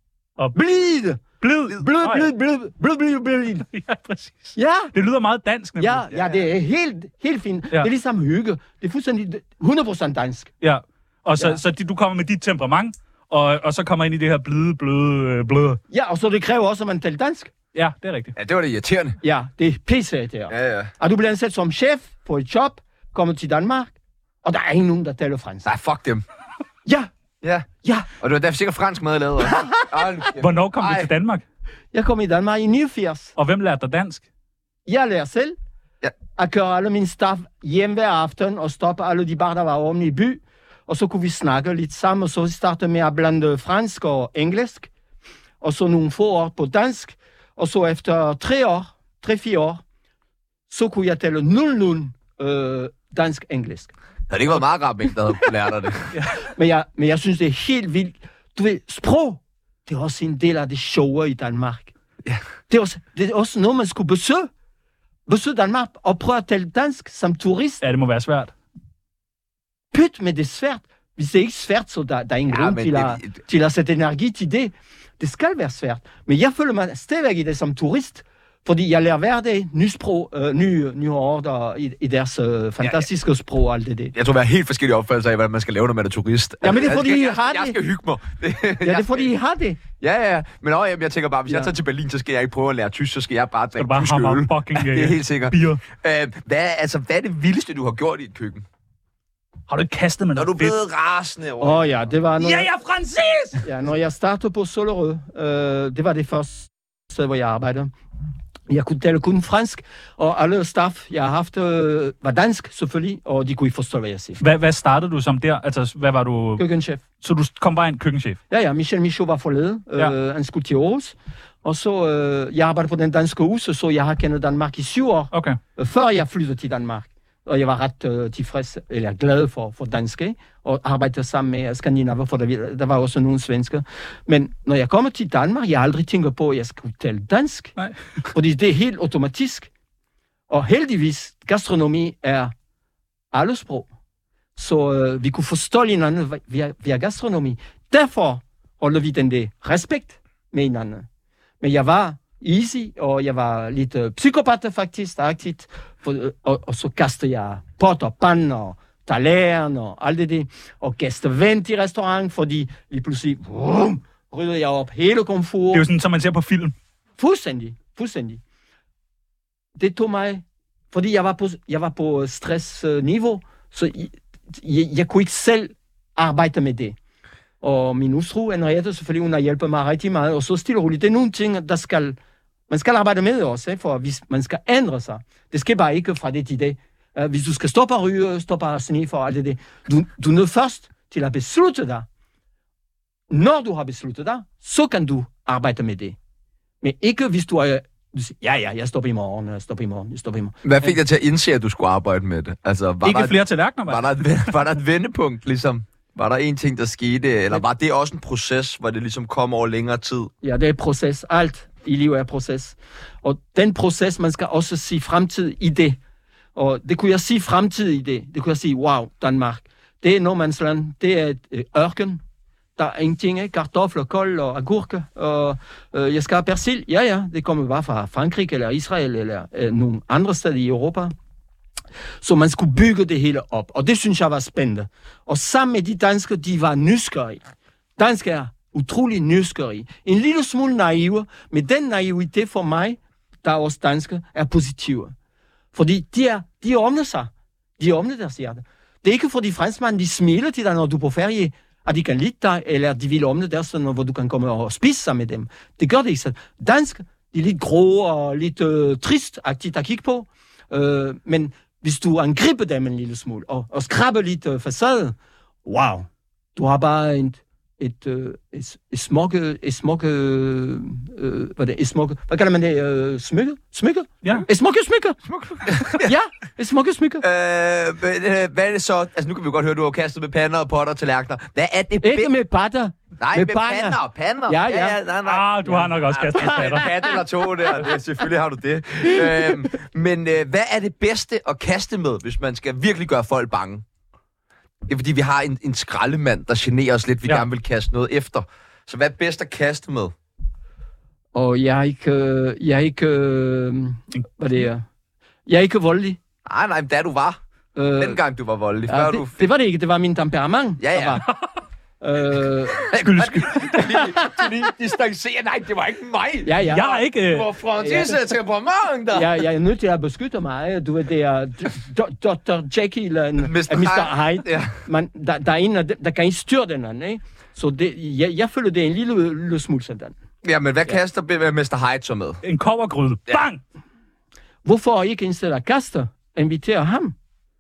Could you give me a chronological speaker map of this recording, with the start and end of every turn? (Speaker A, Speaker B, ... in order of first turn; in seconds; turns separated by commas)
Speaker A: 0.5-1.2, Speaker B: 1.4-2.3, Speaker A: 1.7-3.6, Speaker B: 3.6-6.1, Speaker A: 4.5-4.9, Speaker A: 5.8-10.5, Speaker B: 10.6-15.8, Speaker A: 15.9-17.5, Speaker B: 17.7-18.3, Speaker C: 18.4-19.2, Speaker A: 19.2-25.6, Speaker C: 20.5-20.9, Speaker C: 25.6-26.2, Speaker C: 27.4-27.7, Speaker A: 27.8-28.1, Speaker C: 28.2-31.1, Speaker A: 29.4-29.8, Speaker B: 30.4-31.4, Speaker A: 31.9-33.3, Speaker B: 33.4-34.2, Speaker A: 34.9-35.5, Speaker A: 36.4-44.9, Speaker A: 45.6-49.8, Speaker A: 50.7-53.9, Speaker C: 54.3-56.1, Speaker A: 56.5-61.9, Speaker A: 62.7-64.5, Speaker A: 65.3-67.8, Speaker B: 67.8-68.5, Speaker A: 69.9-84.1, Speaker C: 72.5-73.4, Speaker C: 84.1-89.3, Speaker A: 86.6-87.8, Speaker A: 88.8-89.8, Speaker C: 90.0-98.6, Speaker B: 93.8-95.8, Speaker B: 99.7-100.8, Speaker C: 100.3-102.0, Speaker A: 101.6-102.7, Speaker B: 102.4-103.6, Speaker A: 103.6-107.9, Speaker A: 108.7-114.4, Speaker B: 114.4-116.6, Speaker A: 116.6-117.0, Speaker B: 117.2-118.4, Speaker A: 118.5-137.8, Speaker B: 125.3-125.6, Speaker A: 138.3-139.7, Speaker A: 140.5-142.5, Speaker A: 143.3-143.9, Speaker A: 144.6-151.1, Speaker A: 151.6-165.8, Speaker B: 165.7-166.7, Speaker A: 167.2-168.4, Speaker A: 169.8-176.9, Speaker A: 177.6-182.2, Speaker A: 182.7-192.1, Speaker A: 193.3-196.2, Speaker A: 196.8-200.9, Speaker C: 200.6-210.3, Speaker B: 203.0-204.5, Speaker A: 210.4-216.0, Speaker A: 216.5-222.2, Speaker A: 222.8-231.1, Speaker A: 232.2-237.4, Speaker A: 238.0-245.1, Speaker A: 245.7-275.2, Speaker C: 275.2-276.1, Speaker A: 275.9-277.2, Speaker C: 277.2-282.3, Speaker A: 282.0-285.0, Speaker C: 283.2-293.8, Speaker B: 285.2-286.9, Speaker C: 294.9-300.1, Speaker A: 301.3-304.9, Speaker A: 305.5-306.2, Speaker C: 306.4-307.4, Speaker A: 307.8-308.2, Speaker C: 308.0-309.5, Speaker A: 308.9-311.2, Speaker C: 310.8-311.2, Speaker A: 312.0-312.8, Speaker C: 312.8-316.5, Speaker B: 313.0-314.1, Speaker A: 316.4-317.0, Speaker B: 316.7-317.5, Speaker C: 317.1-319.4, Speaker A: 317.8-318.2, Speaker A: 319.1-330.1, Speaker C: 323.4-324.7, Speaker C: 330.4-332.4, Speaker B: 332.4-333.6, Speaker A: 334.6-337.1